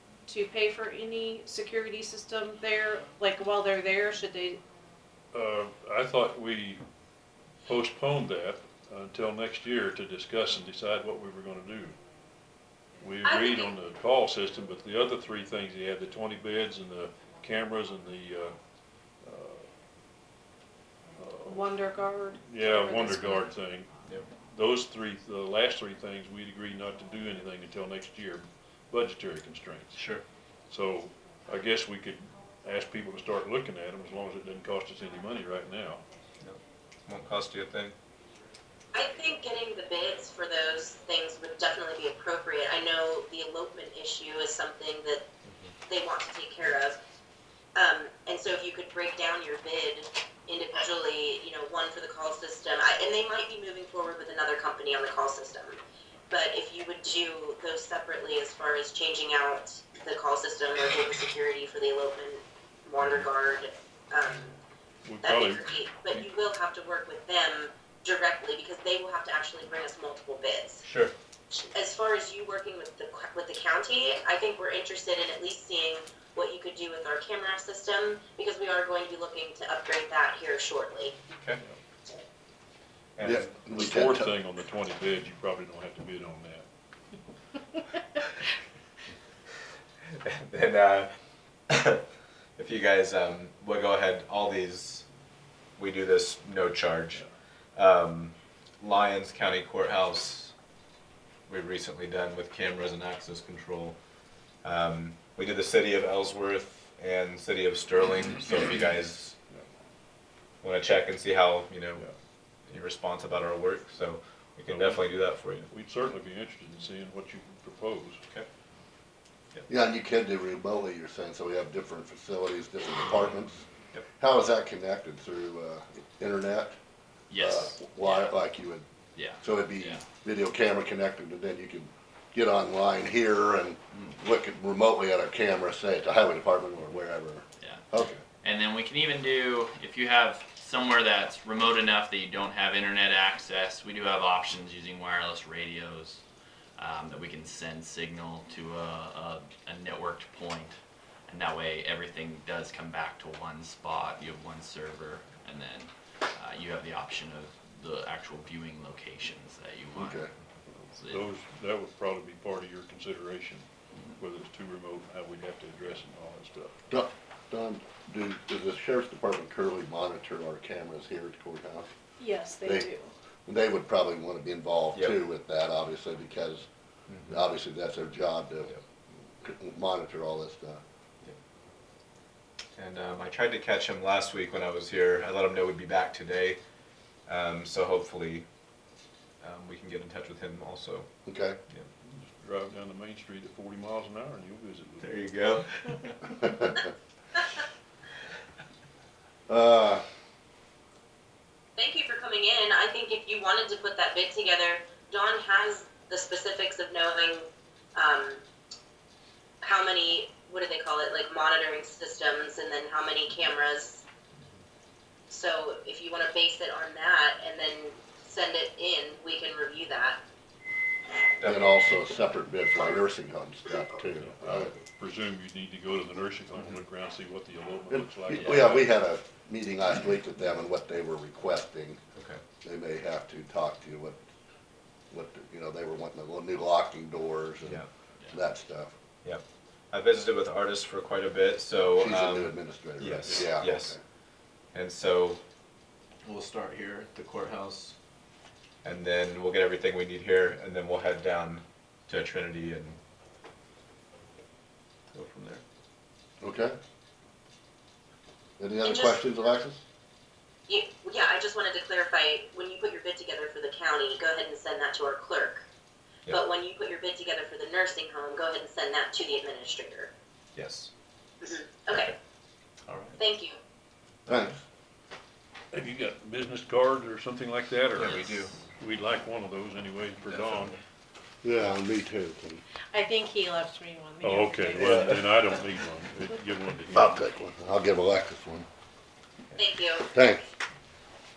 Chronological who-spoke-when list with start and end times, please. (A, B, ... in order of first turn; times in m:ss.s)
0:00.3-0:04.6 A
0:05.3-0:06.9 B
0:07.6-0:12.0 B
0:13.0-0:18.6 B
0:13.2-0:13.7 C
0:19.2-0:19.7 B
0:21.2-0:21.7 B
0:21.5-0:23.5 A
0:22.4-0:30.0 B
0:29.9-0:30.2 D
0:30.7-0:36.0 B
0:36.4-0:38.0 D
0:38.9-0:45.3 C
0:45.4-0:45.8 D
0:45.8-0:47.0 C
0:47.8-0:55.8 C
0:56.3-1:04.6 C
1:05.0-1:06.3 B
1:05.2-1:10.8 C
1:10.8-1:11.1 D
1:11.5-1:21.2 C
1:21.4-1:21.6 D
1:23.2-1:23.7 D
1:23.2-1:24.3 E
1:23.7-1:26.7 B
1:30.2-1:31.1 D
1:31.7-1:32.0 D
1:32.6-1:35.1 D
1:35.8-1:37.2 D
1:37.8-1:40.5 D
1:41.5-1:44.0 D
1:44.6-1:49.4 D
1:50.6-1:52.0 D
1:52.7-1:55.7 D
1:54.7-1:58.2 B
1:59.7-2:03.7 E
2:04.2-2:06.8 E
2:07.3-2:08.3 F
2:07.3-2:08.8 E
2:09.2-2:10.0 F
2:09.4-2:18.2 E
2:17.6-2:17.9 F
2:18.4-2:26.2 F
2:26.8-2:30.8 F
2:31.3-2:40.2 F
2:40.0-2:40.3 E
2:40.8-2:46.8 B
2:40.9-2:41.3 F
2:46.9-2:51.9 E
2:52.2-2:53.1 A
2:52.6-2:52.9 E
2:53.5-2:56.7 E
2:57.1-2:57.4 D
2:57.3-2:58.8 E
2:59.4-3:00.8 E
3:02.8-3:06.6 D
3:07.3-3:08.4 D
3:09.4-3:11.1 D
3:11.3-3:11.6 E
3:12.0-3:15.2 B
3:15.0-3:16.5 D
3:16.4-3:16.8 E
3:19.5-3:20.0 E
3:21.8-3:28.4 C
3:29.6-3:34.0 C
3:35.3-3:40.2 C
3:41.4-3:42.0 D
3:41.4-3:44.7 E
3:44.2-3:48.9 B
3:47.9-3:52.0 E
3:52.2-3:52.4 D
3:52.6-3:54.2 E
3:55.1-3:59.0 E
3:59.2-4:04.0 D
4:02.0-4:04.0 E
4:04.7-4:05.4 D
4:06.2-4:08.0 D
4:08.8-4:13.0 D
4:15.1-4:15.6 D
4:16.4-4:16.8 E
4:18.6-4:19.8 E
4:18.8-4:19.2 C
4:20.7-4:25.6 C
4:26.3-4:30.1 C
4:30.6-4:30.9 D
4:31.4-4:32.1 C
4:32.9-4:33.2 D
4:33.2-4:33.6 C
4:34.3-4:34.6 E
4:35.7-4:40.8 B
4:37.9-4:38.5 D
4:40.3-4:40.7 D
4:41.4-4:42.6 E
4:42.9-4:45.2 A
4:44.2-4:47.3 B
4:46.9-4:48.7 E
4:49.6-4:50.1 C
4:50.1-4:50.5 E